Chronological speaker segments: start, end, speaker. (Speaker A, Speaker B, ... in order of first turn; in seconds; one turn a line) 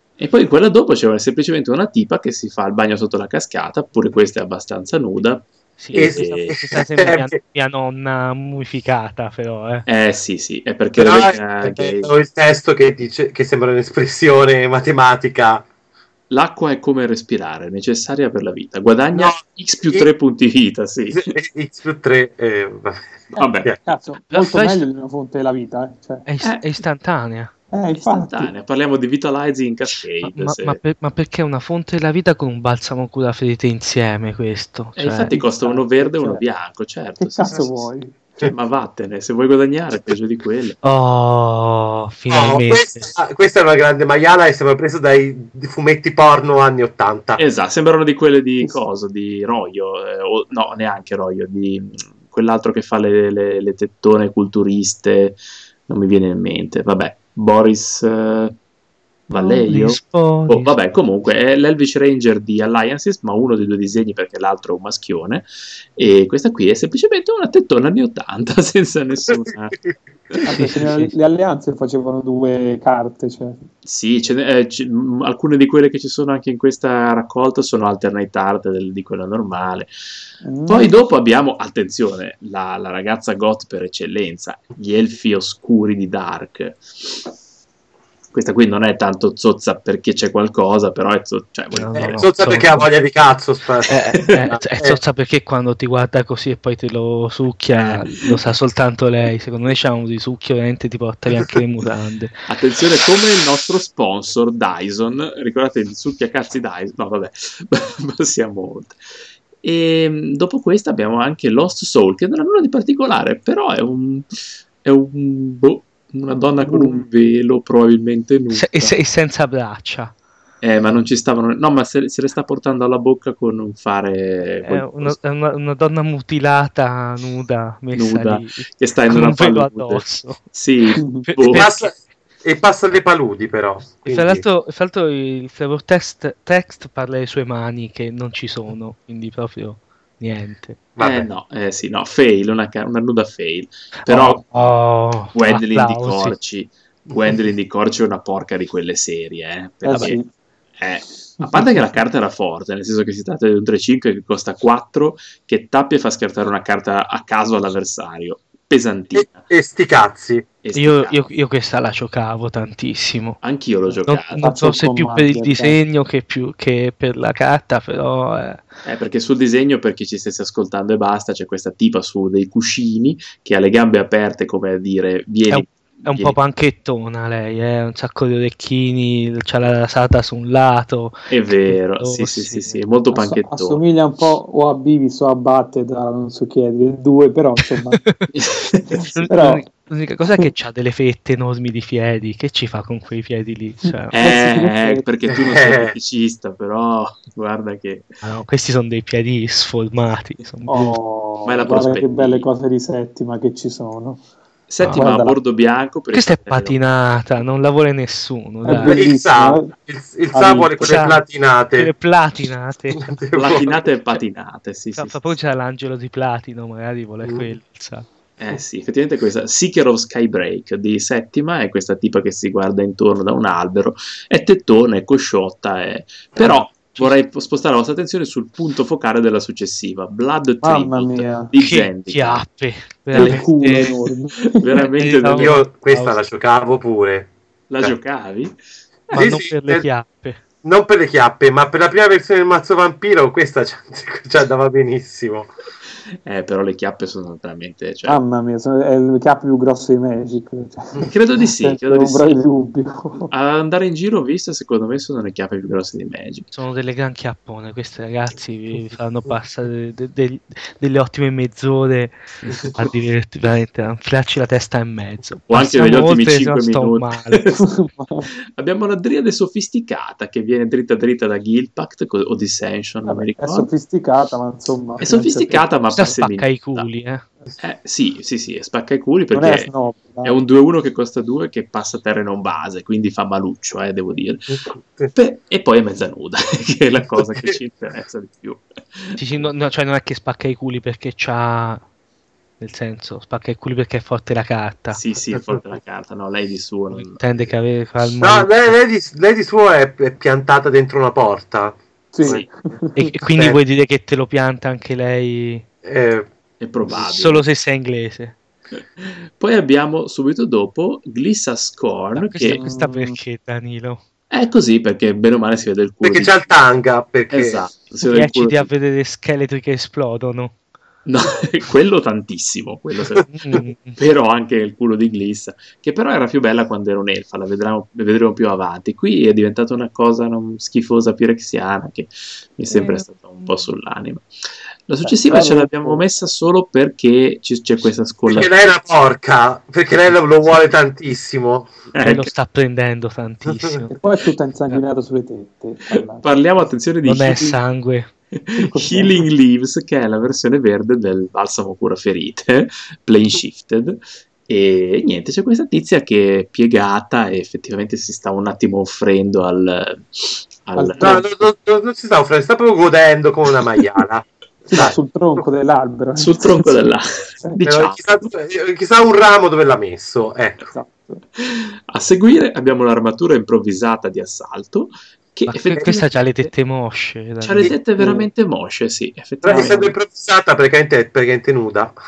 Speaker A: 0.2-6.7
Speaker B: 5.8-9.8
Speaker C: 5.9-7.4
Speaker A: 9.9-12.1
Speaker C: 10.9-15.6
Speaker A: 16.3-21.3
Speaker C: 19.1-20.1
Speaker C: 21.1-23.8
Speaker D: 23.3-26.2
Speaker A: 23.4-23.7
Speaker B: 24.3-24.8
Speaker B: 26.2-27.5
Speaker D: 27.7-28.5
Speaker A: 27.9-30.8
Speaker B: 30.2-35.4
Speaker A: 35.0-37.9
Speaker D: 35.3-36.4
Speaker D: 37.2-38.4
Speaker A: 38.4-40.8
Speaker B: 40.8-43.1
Speaker C: 42.3-47.4
Speaker A: 47.4-58.6
Speaker A: 59.3-69.8
Speaker B: 59.3-60.7
Speaker D: 70.4-73.6
Speaker B: 70.5-71.1
Speaker A: 73.8-79.9
Speaker D: 80.4-81.0
Speaker A: 80.7-87.2
Speaker A: 88.3-92.3
Speaker B: 91.7-92.9
Speaker C: 91.9-95.0
Speaker B: 93.9-102.5
Speaker A: 97.8-98.3
Speaker A: 102.5-109.0
Speaker A: 109.6-118.9
Speaker D: 116.6-117.0
Speaker B: 118.5-120.1
Speaker A: 120.6-125.2
Speaker B: 124.6-130.4
Speaker A: 127.9-131.7
Speaker D: 131.0-131.3
Speaker B: 131.2-131.9
Speaker C: 131.5-134.4
Speaker B: 134.0-140.8
Speaker C: 140.9-141.3
Speaker A: 141.0-144.6
Speaker B: 144.0-146.3
Speaker A: 145.3-150.2
Speaker D: 149.8-150.3
Speaker A: 150.8-159.4
Speaker D: 151.4-151.7
Speaker C: 159.1-160.4
Speaker A: 160.6-161.2
Speaker B: 160.7-163.4
Speaker A: 163.4-164.5
Speaker B: 164.1-168.7
Speaker D: 164.4-165.8
Speaker A: 168.8-176.4
Speaker B: 175.5-182.8
Speaker A: 181.3-183.8
Speaker D: 183.1-188.0
Speaker B: 188.0-188.3
Speaker A: 188.3-189.0
Speaker D: 188.9-189.6
Speaker B: 189.0-194.2
Speaker A: 194.1-198.2
Speaker D: 194.2-195.1
Speaker C: 195.3-195.9
Speaker B: 198.2-201.0
Speaker D: 200.7-204.2
Speaker A: 201.4-202.5
Speaker A: 204.7-206.8
Speaker B: 204.8-205.1
Speaker D: 204.9-205.4
Speaker B: 206.1-209.0
Speaker D: 208.6-209.7
Speaker C: 208.8-211.9
Speaker D: 210.3-210.9
Speaker B: 210.8-211.2
Speaker B: 211.8-213.1
Speaker C: 212.9-213.9
Speaker A: 213.3-215.2
Speaker B: 215.0-218.1
Speaker A: 218.4-232.4
Speaker B: 226.4-227.2
Speaker D: 230.6-231.5
Speaker B: 231.6-233.9
Speaker D: 233.1-234.8
Speaker A: 233.1-233.4
Speaker A: 234.6-235.6
Speaker B: 234.9-236.2
Speaker C: 235.3-237.9
Speaker A: 237.7-238.6
Speaker B: 239.1-240.4
Speaker C: 239.1-239.8
Speaker C: 240.6-245.5
Speaker A: 246.2-248.2
Speaker D: 248.1-253.3
Speaker A: 251.1-252.4
Speaker A: 253.3-256.5
Speaker B: 256.5-267.5
Speaker A: 265.5-267.6
Speaker D: 267.6-268.3
Speaker A: 268.6-273.7
Speaker D: 273.1-275.7
Speaker A: 275.0-276.9
Speaker B: 275.9-277.2
Speaker A: 277.6-279.7
Speaker D: 279.3-280.4
Speaker A: 280.2-284.6
Speaker C: 284.5-285.1
Speaker A: 285.1-289.2
Speaker B: 289.2-291.8
Speaker B: 292.6-295.0
Speaker A: 294.9-297.2
Speaker B: 296.9-298.8
Speaker C: 298.2-302.4
Speaker D: 302.1-303.1
Speaker B: 302.9-305.6
Speaker C: 303.3-303.6
Speaker C: 305.8-306.3
Speaker A: 306.6-307.4
Speaker B: 306.9-308.4
Speaker A: 309.0-312.6
Speaker B: 312.1-314.0
Speaker D: 312.4-313.2
Speaker A: 314.3-316.5
Speaker C: 316.0-317.6
Speaker A: 317.3-318.7
Speaker B: 318.1-320.5
Speaker A: 321.1-323.3
Speaker B: 323.3-324.0
Speaker A: 323.9-334.3
Speaker A: 334.9-338.5
Speaker D: 335.0-336.1
Speaker C: 338.2-341.7
Speaker A: 341.9-342.3
Speaker B: 342.0-343.9
Speaker C: 343.4-343.8
Speaker D: 343.9-346.6
Speaker A: 345.9-347.6
Speaker B: 347.0-348.1
Speaker A: 348.3-361.3
Speaker D: 348.6-349.2
Speaker D: 360.8-361.2
Speaker C: 361.0-365.4
Speaker D: 364.7-366.9
Speaker A: 366.2-368.2
Speaker C: 367.6-370.7
Speaker D: 370.7-371.2
Speaker A: 371.4-376.5
Speaker B: 375.5-377.7
Speaker A: 377.4-379.9
Speaker D: 378.0-378.3
Speaker C: 379.4-381.9
Speaker D: 379.5-379.9